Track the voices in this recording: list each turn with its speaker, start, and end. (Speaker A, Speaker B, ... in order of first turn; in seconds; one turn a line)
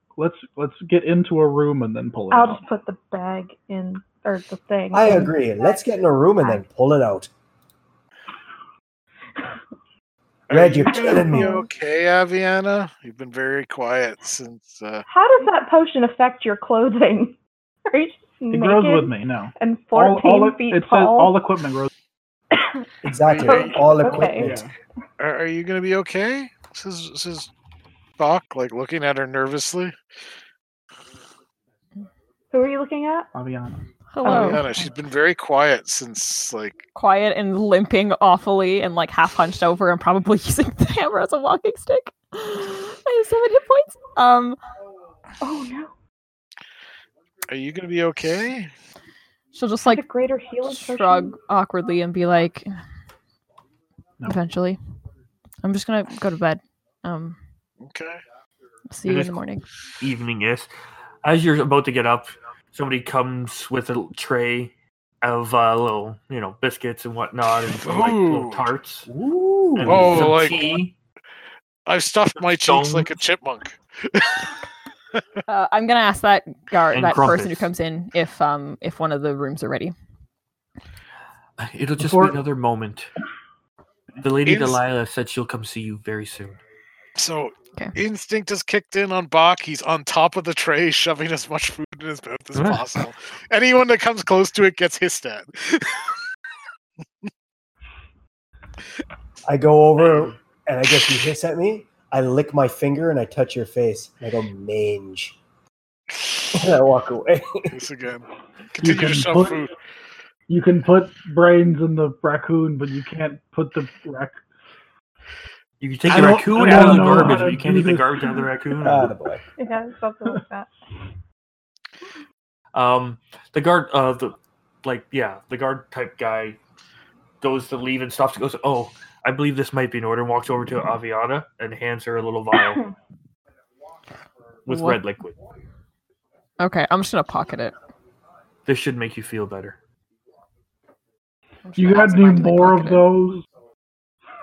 Speaker A: 0.2-2.6
Speaker B: 2.3-5.4
Speaker C: 4.9-7.3
Speaker D: 10.5-15.1
Speaker C: 10.5-11.6
Speaker B: 10.9-11.7
Speaker B: 15.1-17.4
Speaker B: 17.9-21.3
Speaker A: 18.5-21.9
Speaker C: 23.0-24.7
Speaker D: 23.2-23.9
Speaker B: 23.4-24.5
Speaker A: 24.4-24.7
Speaker D: 25.2-27.5
Speaker D: 28.2-29.9
Speaker B: 32.5-33.3
Speaker A: 33.3-33.9
Speaker E: 34.1-34.7
Speaker B: 34.2-34.8
Speaker D: 34.2-36.8
Speaker E: 37.0-44.6
Speaker B: 45.4-45.9
Speaker D: 47.5-48.7
Speaker E: 49.5-50.0
Speaker B: 49.9-51.3
Speaker E: 50.7-52.7
Speaker E: 54.2-54.8
Speaker E: 55.6-57.4
Speaker D: 57.8-58.2
Speaker E: 58.9-59.6
Speaker F: 59.0-59.4
Speaker F: 60.0-60.7
Speaker F: 61.2-69.1
Speaker D: 67.8-68.7
Speaker C: 69.1-70.4
Speaker F: 69.8-70.9
Speaker D: 69.8-70.8
Speaker D: 71.9-74.5
Speaker F: 72.4-73.2
Speaker E: 75.5-79.9
Speaker F: 76.9-77.7
Speaker F: 81.6-83.1
Speaker A: 82.0-82.4
Speaker F: 84.2-86.6
Speaker D: 84.5-84.8
Speaker D: 87.2-96.2
Speaker F: 92.5-92.9
Speaker C: 99.5-105.4
Speaker D: 100.0-100.3
Speaker C: 106.5-107.7
Speaker D: 107.7-109.7
Speaker A: 108.8-109.7
Speaker A: 110.5-114.4
Speaker F: 115.8-119.1
Speaker A: 116.1-118.3
Speaker C: 116.6-117.2
Speaker C: 118.8-119.4
Speaker B: 119.6-120.7
Speaker F: 122.7-126.6
Speaker F: 127.4-132.8
Speaker F: 134.7-135.3
Speaker E: 134.7-135.0
Speaker E: 136.6-137.8
Speaker F: 138.7-139.8
Speaker E: 141.7-143.1
Speaker A: 141.8-143.4